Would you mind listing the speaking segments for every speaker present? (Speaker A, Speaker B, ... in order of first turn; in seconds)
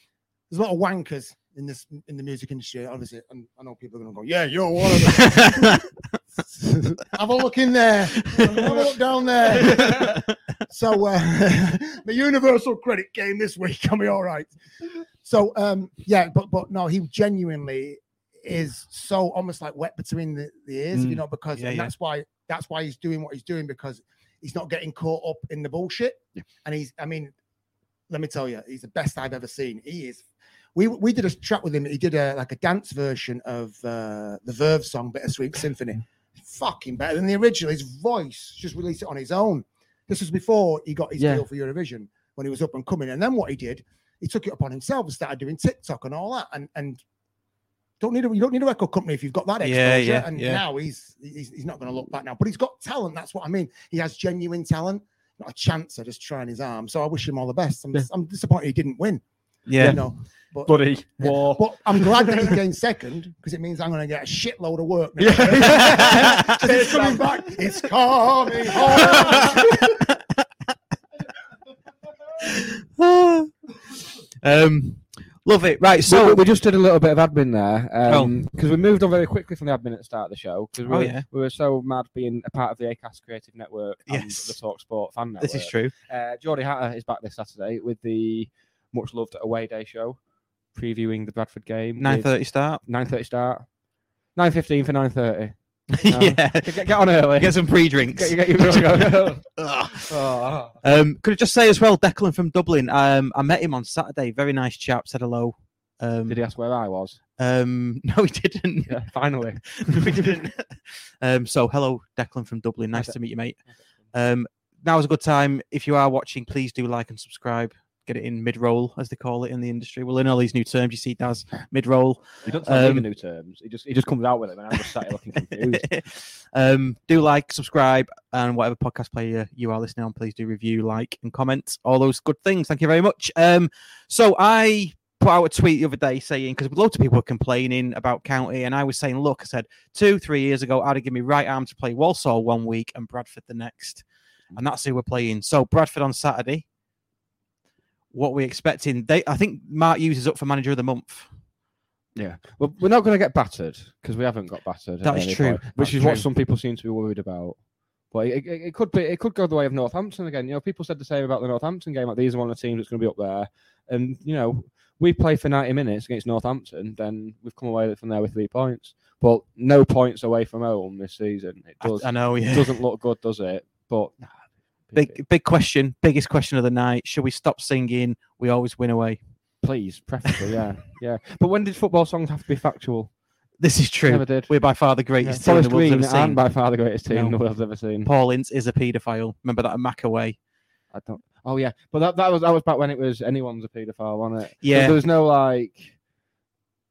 Speaker A: 0.5-5.9, 6.4-14.5, 15.2-27.3, 28.1-30.2, 30.8-47.0, 48.0-59.2, 59.8-69.8
Speaker B: 5.2-5.8, 21.6-21.9, 49.6-50.6, 59.7-60.0, 65.9-66.6, 69.2-70.1, 72.4-76.4, 78.1-78.4, 80.9-81.2, 84.1-84.6, 85.4-85.9, 92.0-92.8, 95.9-100.2, 100.8-106.4, 107.4-109.0, 109.7-113.6, 114.1-123.1, 125.5-146.7, 148.1-151.3, 155.0-156.3, 171.8-172.8, 174.9-179.2, 183.6-186.4, 187.1-190.4, 194.6-195.0
Speaker C: 20.9-21.2, 41.2-41.5, 59.8-60.0, 60.7-62.6, 65.2-67.2, 68.8-69.7, 76.0-90.2, 90.7-93.7, 94.3-99.5, 100.1-100.8, 106.3-107.2, 108.9-110.4, 122.4-125.9, 152.2-157.6, 158.1-174.3, 174.9-175.2, 179.6-183.1, 184.1-184.5, 185.2-188.1, 190.9-195.9